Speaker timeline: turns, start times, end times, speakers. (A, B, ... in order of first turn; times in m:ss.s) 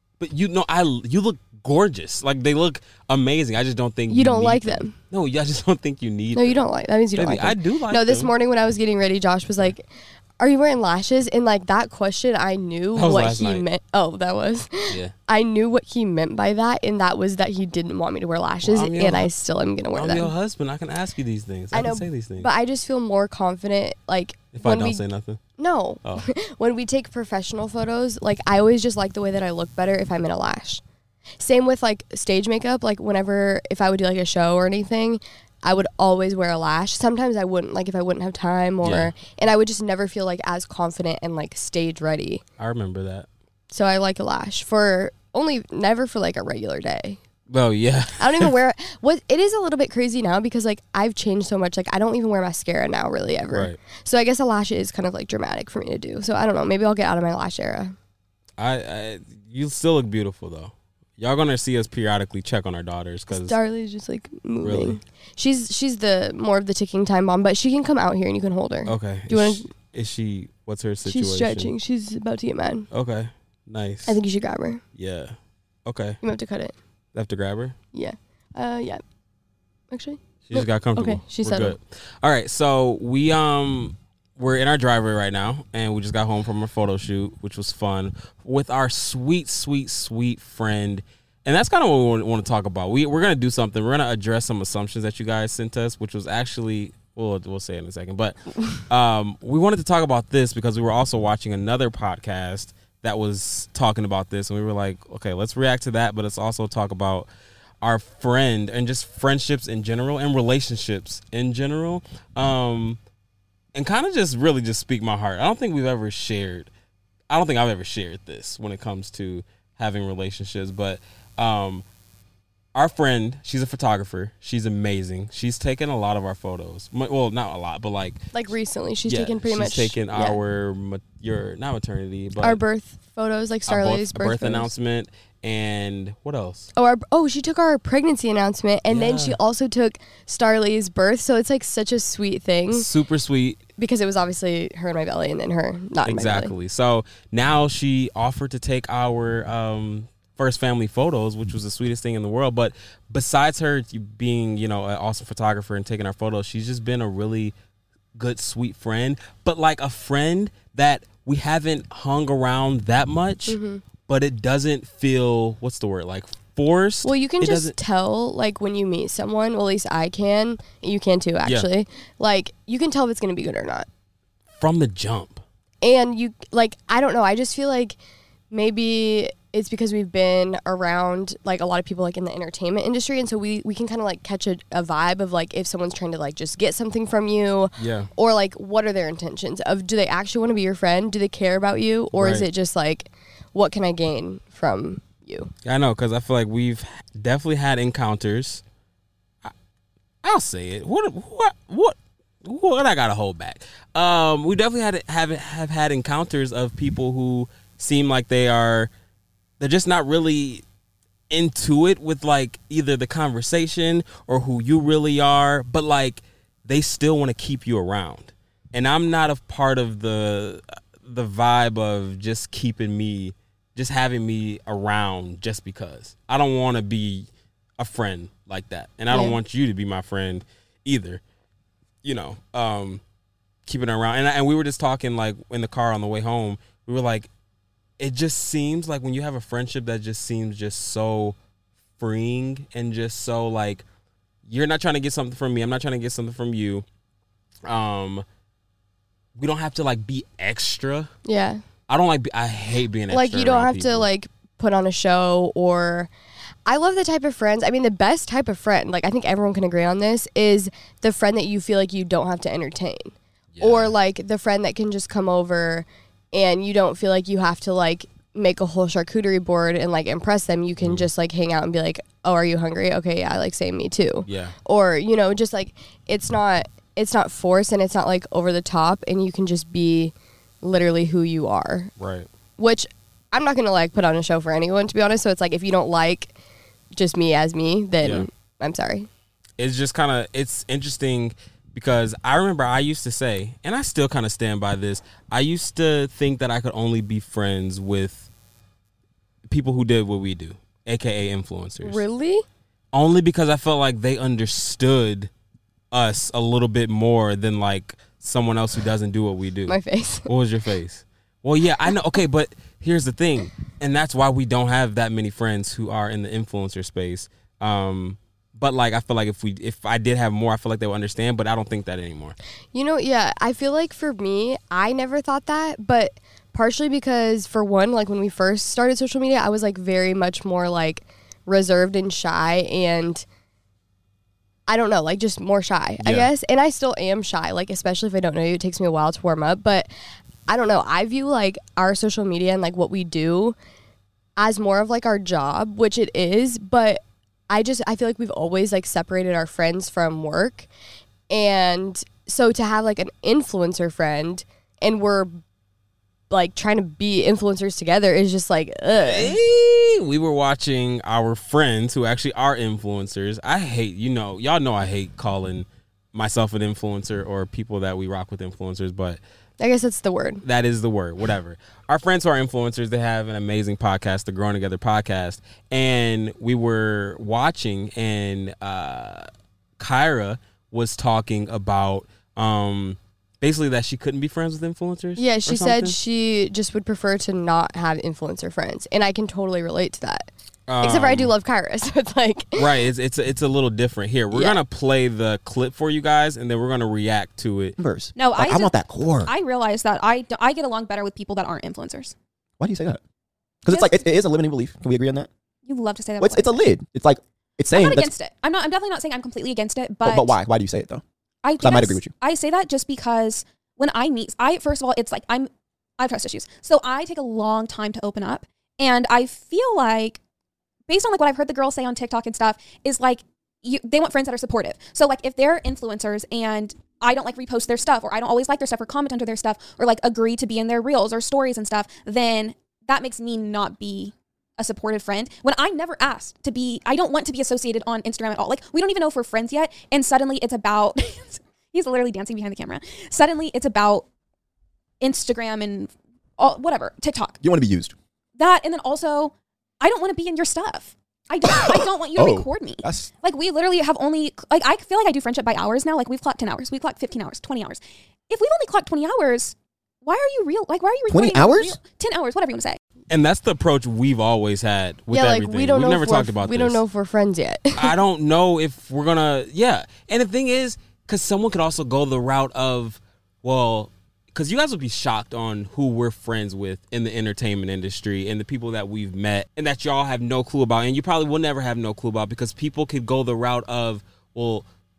0:00.2-0:08.3 A
0:04.1-0:04.9 B
0:06.3-0:09.8 B
0:10.4-0:20.3 B
0:13.0-0:13.6 A
0:14.9-0:15.1 A
0:18.6-0:19.3 A
0:19.9-0:22.5 A
0:21.7-0:25.0 B
0:24.5-0:25.4 A
0:25.6-0:30.8 B
0:31.4-0:42.4 B
0:38.8-0:39.1 A
0:42.6-0:43.3 A
0:43.7-0:47.2 B
0:47.5-0:48.5 A
0:48.2-0:57.9 B
0:53.5-0:53.8 A
0:58.6-1:03.5 A
1:03.3-1:09.7 B
1:04.6-1:05.0 A
1:08.8-1:11.7 A
1:11.0-1:12.9 B
1:12.9-1:14.2 A
1:14.1-1:14.8 B
1:15.0-1:16.2 A
1:16.2-1:16.7 B
1:17.1-1:17.8 A
1:17.9-1:19.0 B
1:19.9-1:21.8 B
1:20.5-1:47.3 A
1:47.8-1:53.0 A
1:53.7-1:56.7 A
1:57.3-2:01.8 A
2:02.7-2:08.3 A
2:08.3-2:10.4 B
2:09.1-2:12.6 A
2:12.4-2:14.7 B
2:13.7-2:16.7 A
2:16.8-2:22.9 B
2:18.9-2:19.4 A
2:22.7-2:23.6 A
2:23.8-2:26.5 B
2:26.0-2:37.5 A
2:38.2-2:43.6 A
2:43.5-2:43.8 B
2:44.1-2:47.8 A
2:47.0-2:53.9 B
2:54.6-2:55.4 A
2:55.8-2:58.0 B
2:58.5-3:15.5 B
3:07.8-3:08.1 A
3:12.2-3:12.5 A
3:15.6-3:18.6 A
3:20.2-3:28.9 A
3:29.6-3:30.6 A
3:31.3-3:51.2 A
3:49.1-3:49.4 B
3:52.0-3:53.0 A
3:53.6-3:57.3 A
3:58.0-4:01.4 A
4:02.0-4:03.8 A
4:04.4-4:06.8 A
4:07.6-4:08.2 A
4:09.4-4:11.1 A
4:11.2-4:11.6 B
4:11.9-4:14.1 A
4:13.1-4:16.1 B
4:16.6-4:41.9 B
4:23.5-4:23.9 A
4:30.8-4:31.1 A
4:34.2-4:34.5 A
4:42.0-4:42.3 A
4:42.6-4:46.3 B
4:46.9-4:49.1 B
4:48.0-4:48.3 A
4:49.6-4:58.3 A
4:59.5-5:02.0 A
5:01.8-5:02.4 B
5:02.9-5:05.3 A
5:05.9-5:22.4 A
5:09.7-5:10.3 B
5:22.7-5:33.2 B
5:34.7-5:39.9 B
5:36.0-5:36.3 A
5:40.5-5:43.6 B
5:44.4-5:50.7 B
5:51.3-5:55.4 B
5:56.3-5:59.4 B
5:59.0-6:09.2 A
6:09.6-6:10.4 B
6:10.4-6:19.3 A
6:19.8-6:26.0 A
6:25.2-6:30.3 B
6:30.7-6:31.3 A
6:30.8-6:32.7 B
6:32.6-6:37.8 A
6:34.3-6:34.6 B
6:37.8-6:39.3 C
6:38.2-6:42.1 D
6:42.6-6:43.0 C
6:43.6-6:45.3 C
6:43.7-6:44.0 D
6:45.6-6:46.6 D
6:46.2-6:48.1 C
6:47.7-6:50.3 D
6:50.0-6:51.0 C
6:51.4-7:00.2 D
6:51.6-6:52.1 C
7:00.9-7:24.0 D
7:25.0-7:27.4 D
7:27.4-7:27.9 C
7:28.4-7:42.8 D
7:31.4-7:33.1 C
7:41.1-7:41.8 C
7:43.1-7:46.8 A
7:45.1-7:47.9 B
7:47.8-8:04.7 A